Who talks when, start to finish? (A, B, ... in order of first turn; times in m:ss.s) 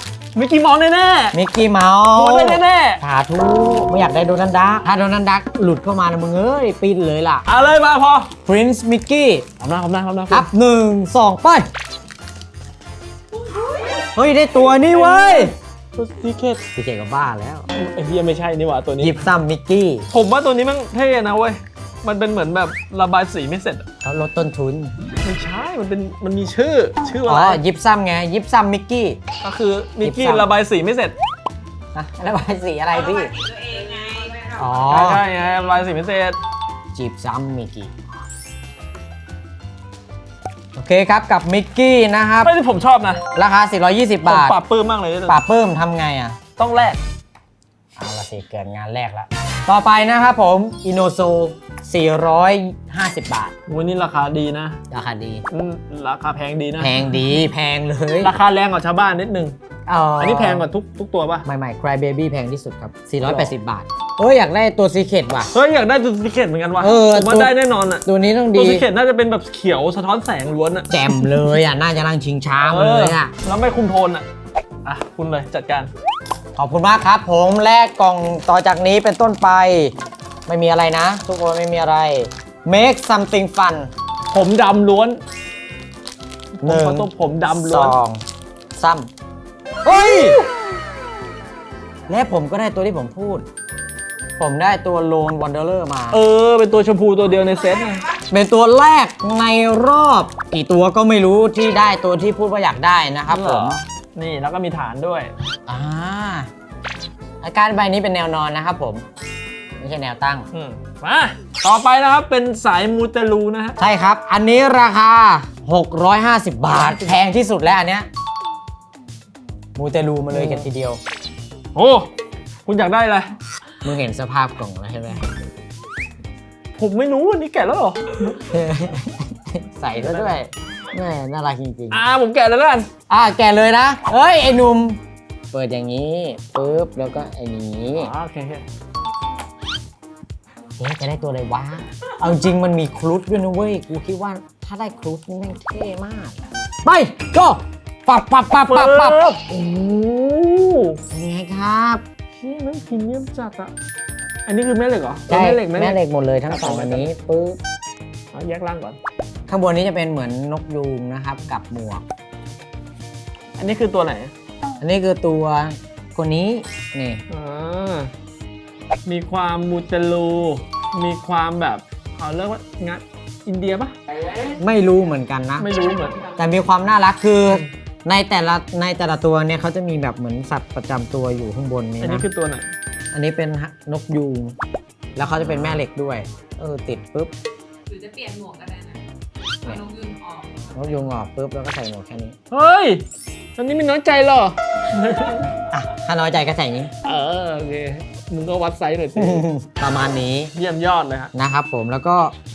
0:00.4-0:01.4 A
0:01.3-0:07.5 B
0:02.1-0:03.0 A
0:07.5-0:08.3 A
0:08.5-0:09.5 B
0:09.6-0:10.5 A
0:10.3-0:11.7 B
0:13.6-0:14.0 C
0:14.1-0:15.5 B
0:14.8-0:16.6 A
0:16.8-0:17.7 B
0:17.7-0:19.3 A
0:19.0-0:20.1 B
0:20.1-0:23.9 A
0:24.0-0:25.0 B
0:25.2-0:27.6 A
0:27.3-0:29.2 B
0:29.4-0:31.2 A
0:30.0-0:30.5 B
0:31.9-0:33.3 B
0:32.9-0:34.7 C
0:34.6-0:35.2 B
0:34.8-0:36.4 A
0:36.9-0:38.2 B
0:40.8-0:42.5 B
0:42.4-0:43.2 A
0:43.3-0:44.6 B
0:44.2-0:45.4 A
0:45.3-0:46.4 B
0:46.6-0:47.0 A
0:48.0-0:53.6 B
0:53.7-0:54.8 A
0:54.9-0:55.4 B
0:55.5-0:57.0 A
0:56.8-0:58.3 B
0:58.2-0:59.6 A
0:59.9-1:00.7 B
1:00.2-1:01.5 A
1:01.5-1:05.5 B
1:03.2-1:03.5 A
1:05.5-1:11.2 A
1:06.8-1:08.9 B
1:10.9-1:13.3 B
1:12.6-1:14.3 A
1:14.8-1:15.9 A
1:16.6-1:20.0 B
1:20.5-1:23.9 B
1:24.3-1:25.2 A
1:26.6-1:28.0 A
1:26.6-1:28.2 B
1:28.8-1:29.1 B
1:29.8-1:30.4 B
1:29.9-1:30.5 A
1:32.1-1:33.5 B
1:34.4-1:36.2 B
1:36.1-1:38.1 A
1:37.7-1:38.2 C
1:38.3-1:43.8 B
1:43.3-1:45.3 A
1:45.7-1:46.5 B
1:47.4-1:49.1 B
1:49.8-1:50.5 B
1:50.5-1:53.8 A
1:53.8-1:58.1 B
1:59.8-2:01.0 B
2:00.3-2:00.7 A
2:01.8-2:02.1 A
2:02.7-2:03.3 A
2:03.8-2:05.3 B
2:06.8-2:08.4 A
2:08.4-2:12.0 B
2:10.0-2:10.4 A
2:11.9-2:12.9 A
2:13.1-2:15.0 B
2:15.5-2:18.1 B
2:18.0-2:18.7 A
2:20.8-2:29.2 B
2:28.7-2:31.0 A
2:31.1-2:32.0 B
2:32.4-2:33.7 A
2:34.5-2:37.1 A
2:35.3-2:37.6 B
2:38.3-2:39.0 A
2:39.5-2:42.0 B
2:43.6-2:44.3 A
2:44.8-2:47.2 B
2:47.3-2:48.1 A
2:49.1-2:54.0 A
2:54.6-2:55.7 B
2:55.6-2:56.2 A
2:56.4-3:02.3 B
3:02.0-3:02.7 A
3:03.1-3:04.6 B
3:05.2-3:07.3 B
3:07.9-3:09.0 C
3:09.6-3:11.0 C
3:10.8-3:12.4 B
3:12.5-3:13.0 A
3:13.6-3:15.5 A
3:15.7-3:16.9 B
3:17.0-3:19.5 A
3:19.2-3:20.5 B
3:20.5-3:21.3 A
3:21.3-3:22.3 B